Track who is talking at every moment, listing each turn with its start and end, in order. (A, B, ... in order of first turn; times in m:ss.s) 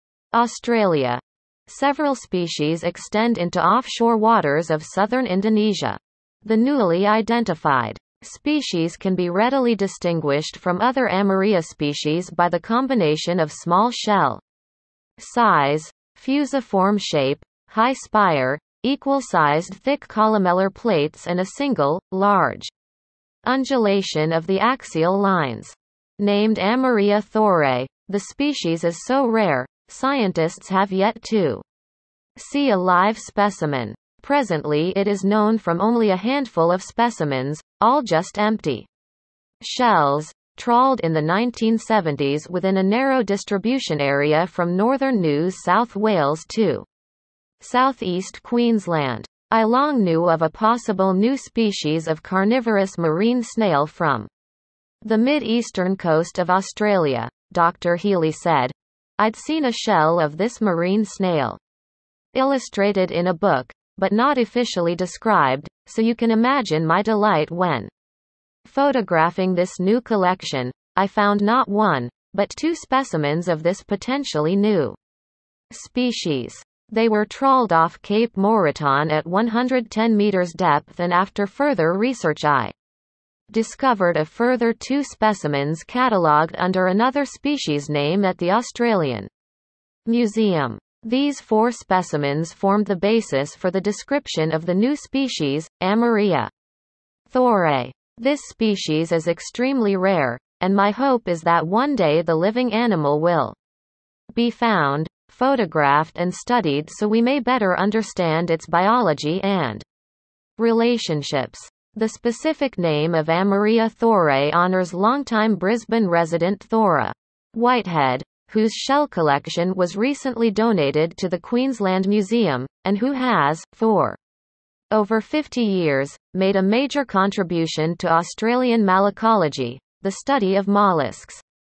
0:00.3-0:14.4 A
0:15.2-0:22.7 A
0:23.4-0:31.6 A
0:32.4-0:38.9 A
0:39.6-0:46.8 A
0:47.6-0:54.3 A
0:55.0-1:01.6 A
1:02.3-1:07.9 A
1:08.6-1:15.0 A
1:15.7-1:22.7 A
1:23.5-1:29.3 A
1:30.0-1:36.5 A
1:37.3-1:43.6 A
1:44.3-1:49.8 A
1:50.6-2:04.2 A
2:04.9-2:11.4 A